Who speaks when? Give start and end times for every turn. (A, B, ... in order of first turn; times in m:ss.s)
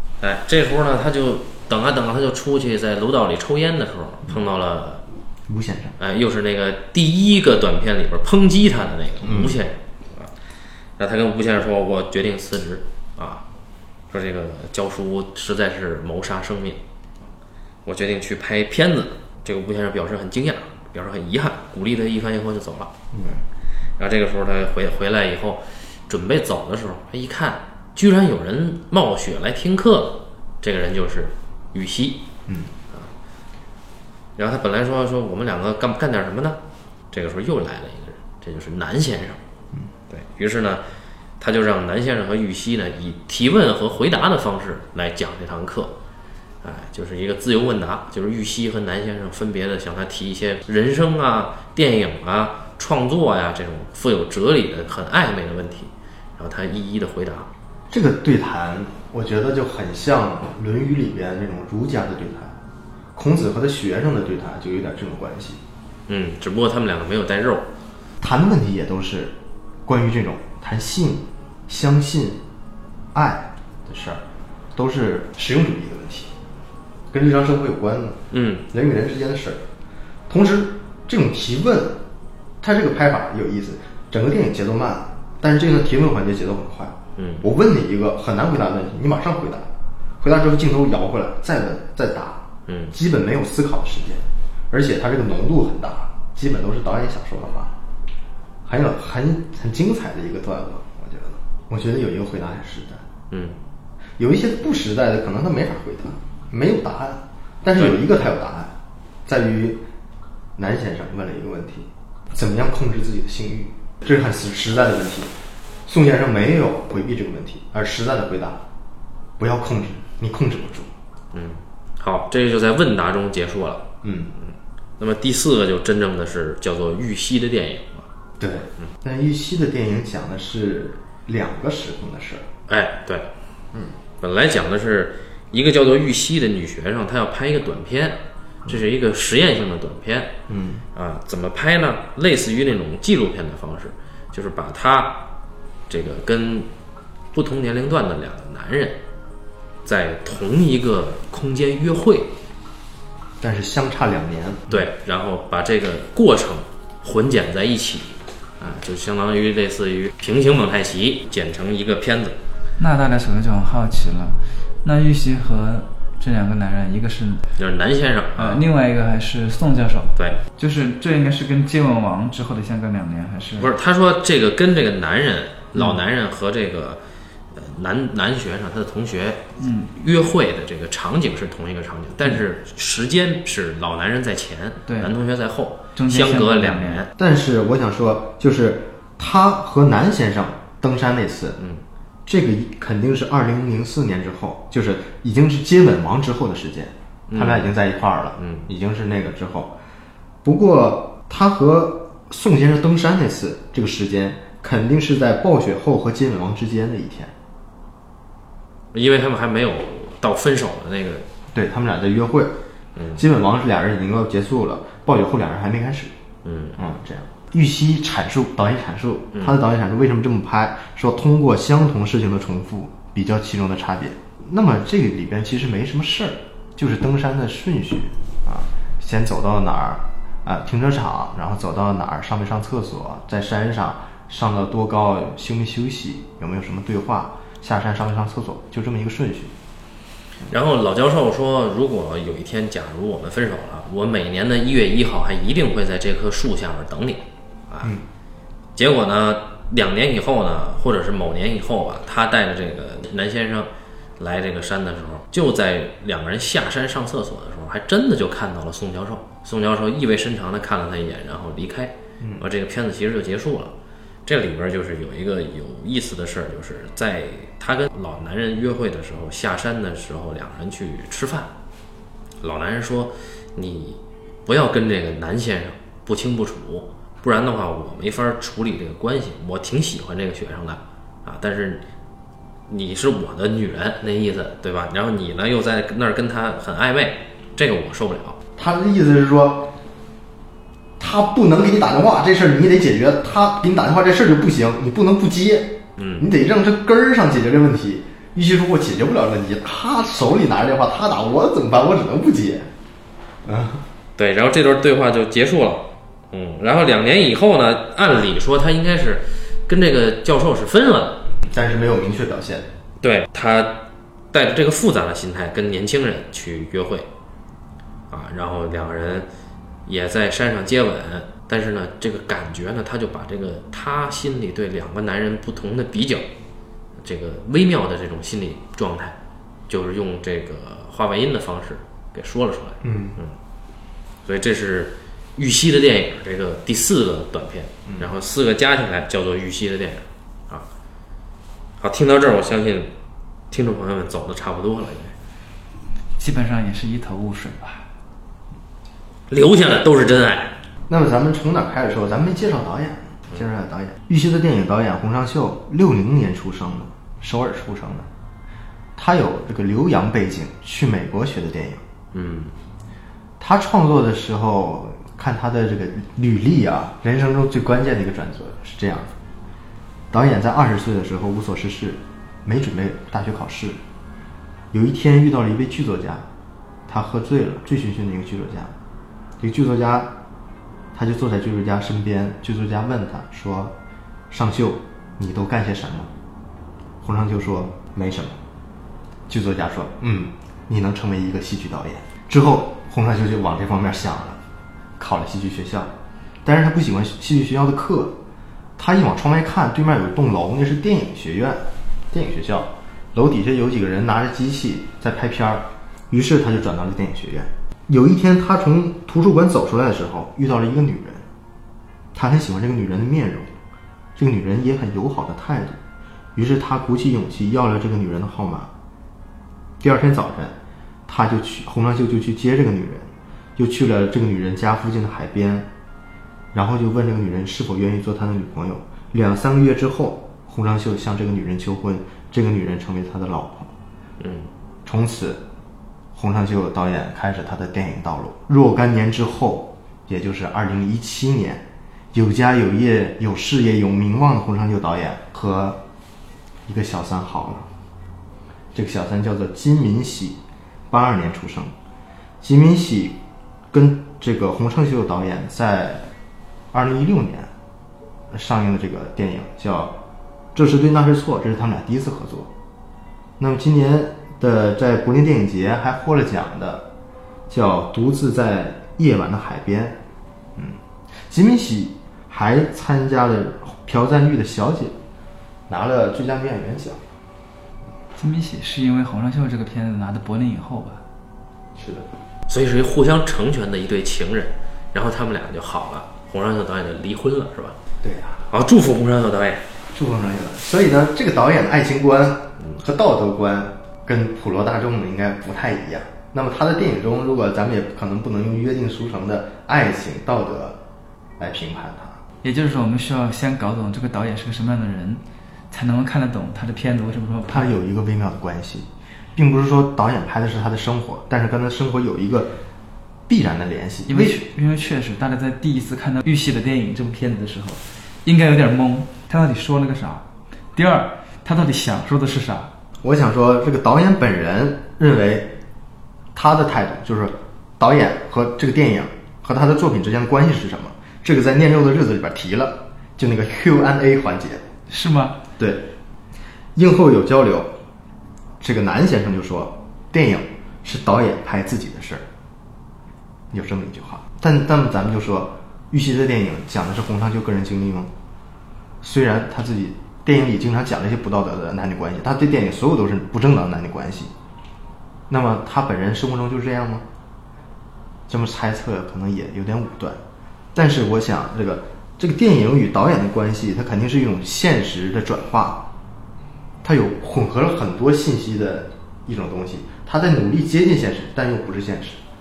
0:00.2-0:05.0 A
0:05.5-0:06.0 B
0:06.0-0:10.3 A
0:09.2-0:09.6 B
0:11.0-0:13.4 A
0:14.1-0:16.8 A
0:17.8-0:22.9 A
0:23.1-0:23.4 B
0:24.0-0:32.3 A
0:34.4-0:36.6 A
0:37.1-0:39.4 A
0:40.1-0:40.8 A
0:41.4-0:46.0 A
0:46.6-0:57.5 A
0:57.9-1:02.6 B
1:03.1-1:05.6 B
1:06.1-1:07.7 A
1:08.2-1:12.4 B
1:13.1-1:14.2 B
1:14.8-1:16.3 B
1:17.1-1:19.6 B
1:18.3-1:18.7 A
1:20.3-1:22.0 B
1:22.6-1:29.7 B
1:27.2-1:27.4 A
1:30.2-1:37.8 B
1:32.7-1:32.9 A
1:38.6-1:43.0 B
1:43.3-1:43.6 A
1:44.2-1:48.7 B
1:49.2-1:49.8 B
1:50.6-1:55.3 B
1:55.9-1:58.6 B
1:59.4-2:00.9 B
2:01.3-2:03.9 A
2:04.0-2:04.3 B
2:04.4-2:08.1 A
2:08.4-2:12.5 B
2:12.7-2:13.3 A
2:14.2-2:20.3 A
2:20.5-2:20.8 B
2:21.0-2:25.2 A
2:25.9-2:26.7 A
2:27.3-2:29.0 A
2:29.8-2:32.3 A
2:33.4-2:34.9 B
2:34.7-2:42.4 A
2:42.8-2:47.5 C
2:47.6-2:48.6 A
2:48.4-2:53.7 C
2:53.6-2:57.0 A
2:57.5-3:07.1 A
2:59.6-2:59.9 C
3:04.9-3:05.1 C
3:06.0-3:07.0 C
3:07.2-3:11.6 B
3:12.2-3:19.8 B
3:17.3-3:17.7 A
3:18.4-3:18.6 A
3:20.4-3:27.3 B
3:28.9-3:31.2 A
3:31.5-3:32.6 B
3:33.0-3:33.2 A
3:33.2-3:36.1 B
3:36.4-3:36.8 A
3:36.8-3:59.5 B
3:39.4-3:39.6 A
4:00.5-4:08.0 A
4:08.8-4:23.7 A
4:22.2-4:22.5 B
4:24.2-4:31.5 A
4:32.4-4:41.8 A
4:42.7-4:48.4 A
4:48.6-4:49.7 B
4:51.0-5:02.7 B
4:56.0-4:56.3 A
5:03.4-5:03.8 B
5:04.2-5:11.2 A
5:11.5-5:12.7 B
5:13.0-5:17.1 A
5:18.1-5:19.3 A
5:19.9-5:26.2 A
5:27.0-5:29.2 A
5:29.7-5:33.3 A
5:32.8-5:33.2 B
5:34.2-5:40.7 A
5:37.9-5:38.1 B
5:41.8-5:42.9 A
5:43.5-5:45.2 A
5:46.2-5:47.9 C
5:49.3-5:50.5 A
5:50.9-5:58.1 B
5:59.0-6:01.8 B
6:02.1-6:02.5 A
6:03.4-6:09.1 B
6:10.1-6:13.8 B
6:14.7-6:16.2 B
6:16.9-6:18.7 B
6:19.4-6:20.1 B
6:20.9-6:23.8 B
6:24.3-6:26.1 B
6:27.0-6:28.4 B
6:29.3-6:34.4 B
6:35.0-6:35.9 B
6:36.4-6:38.2 B
6:38.8-6:51.2 B
6:52.1-6:53.5 B
6:54.2-6:55.8 B
6:56.3-6:58.7 B
6:59.8-7:00.6 B
7:01.1-7:05.7 B
7:06.5-7:13.7 B
7:14.2-7:14.5 A
7:14.8-7:15.4 B
7:16.2-7:25.8 B
7:26.7-7:27.7 B
7:28.7-7:31.7 B
7:32.4-7:33.2 B
7:33.7-7:36.1 B
7:36.7-7:37.5 B
7:38.3-7:40.0 B
7:40.5-7:42.5 B
7:43.4-7:46.9 B
7:47.5-7:50.0 B
7:50.6-7:55.0 B
7:55.7-7:57.0 B
7:58.2-8:01.0 C
8:01.8-8:02.1 B
8:02.5-8:07.8 A
8:08.0-8:08.5 B
8:08.5-8:09.6 A
8:09.9-8:20.8 B
8:21.4-8:22.2 B
8:22.4-8:27.8 C
8:27.5-8:32.5 B
8:33.3-8:34.4 B
8:34.1-8:42.7 C
8:43.0-8:45.5 B
8:46.3-8:54.7 B
8:54.9-8:55.4 C
8:55.6-8:55.9 B
8:56.8-8:57.8 B
8:58.6-9:02.2 B
9:03.5-9:08.1 B
9:09.0-9:14.3 B
9:15.3-9:17.0 B
9:18.3-9:20.2 B
9:20.8-9:25.9 B
9:26.8-9:32.2 B